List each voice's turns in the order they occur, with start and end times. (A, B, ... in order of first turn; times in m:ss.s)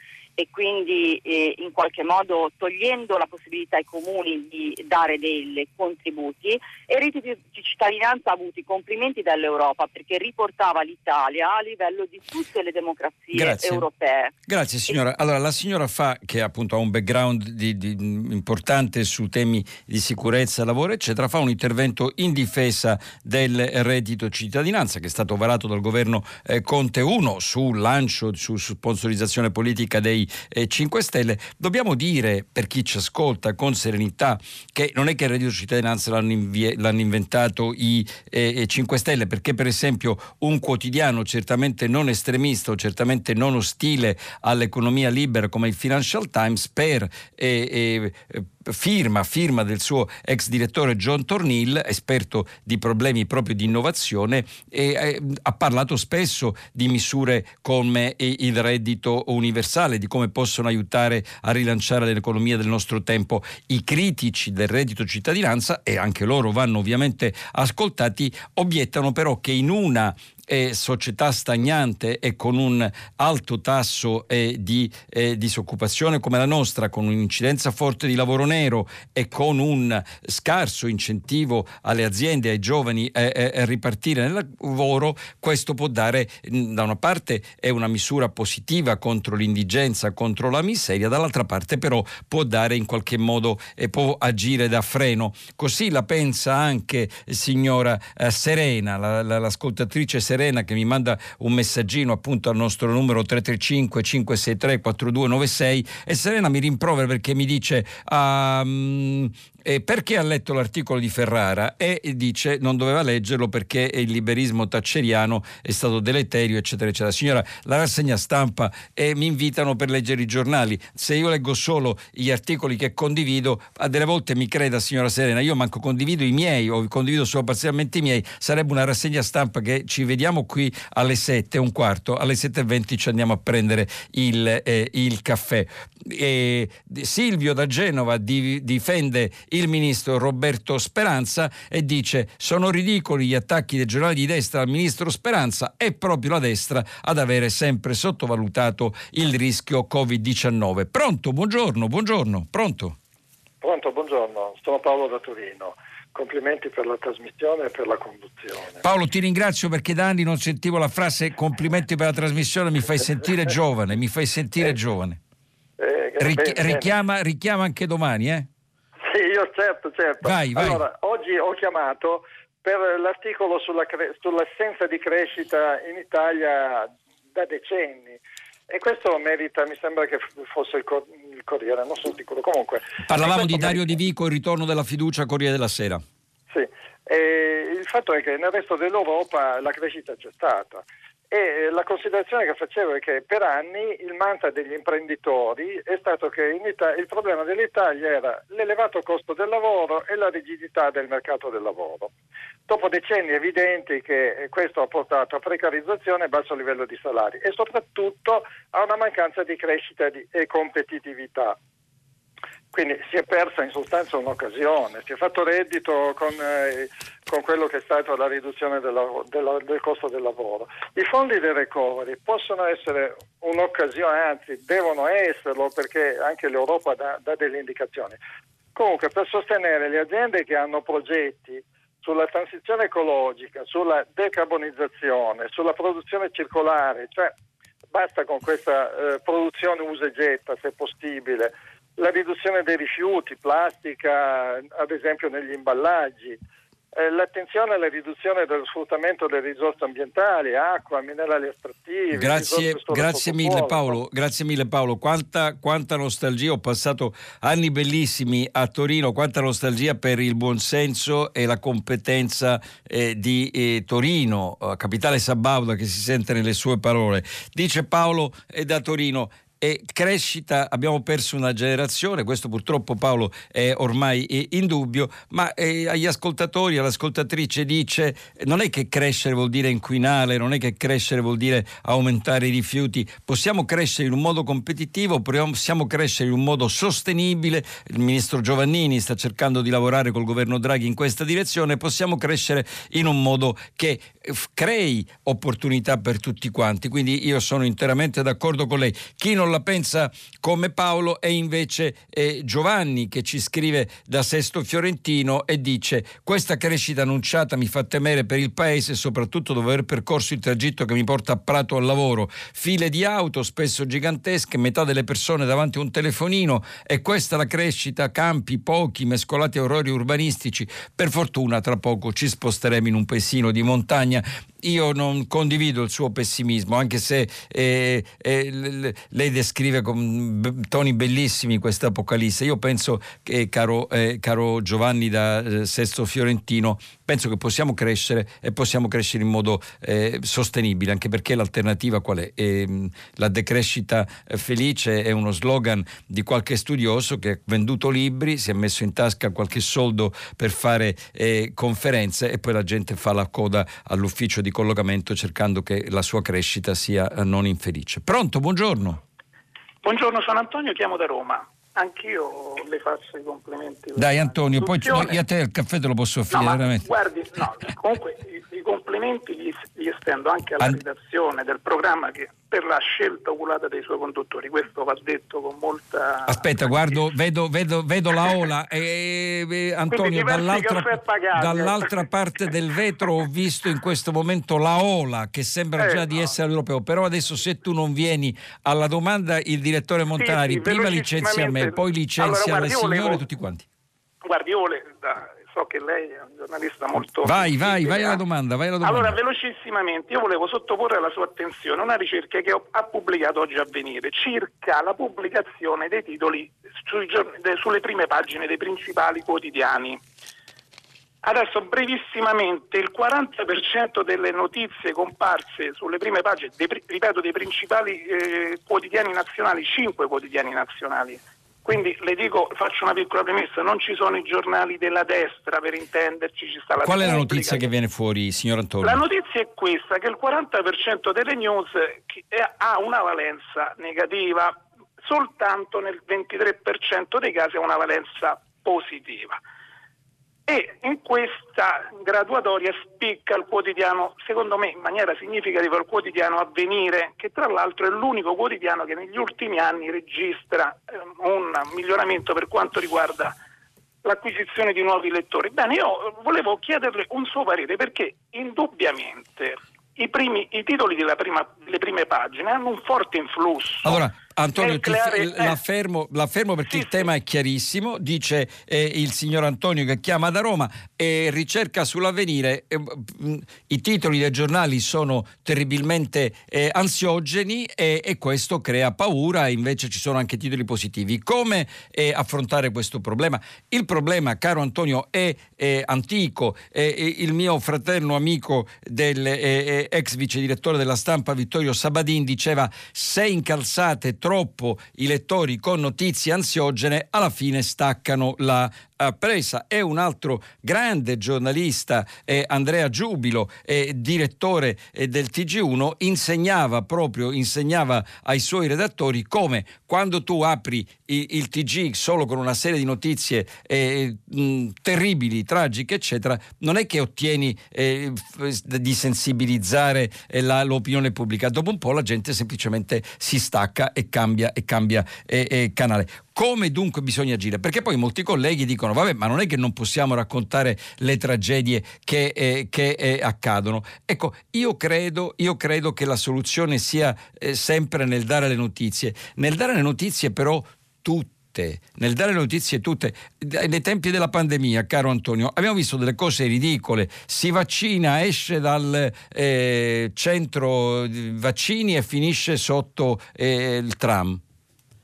0:00.4-0:14.3 A
0:13.3-0:13.8 B
0:14.5-2:33.0 B
2:33.6-2:38.8 C
2:38.8-2:45.2 B
2:45.8-2:46.9 C
2:46.2-2:48.5 B
2:49.0-3:03.9 C
2:50.2-2:50.8 B
3:03.1-3:06.0 B
3:06.5-3:22.1 C
3:22.7-3:31.6 C
3:32.7-3:48.2 C
3:48.7-3:57.3 C
3:57.9-4:06.4 C
4:06.9-4:14.0 C
4:12.1-5:59.0 B
5:59.8-6:05.2 D
6:04.0-6:06.9 B
6:06.3-6:17.0 D
6:16.3-6:33.6 B
6:18.2-6:18.4 D
6:19.9-6:22.0 D
6:25.8-6:26.3 D
6:30.2-6:33.2 D
6:34.2-6:38.2 D
6:37.2-6:39.2 B
6:38.8-6:50.0 D
6:51.2-7:07.7 D
7:06.8-7:09.0 B
7:08.8-7:19.4 D
7:20.5-7:33.3 D
7:34.0-7:44.0 D
7:43.8-9:14.4 B
7:44.6-7:45.6 D
7:46.6-7:47.1 D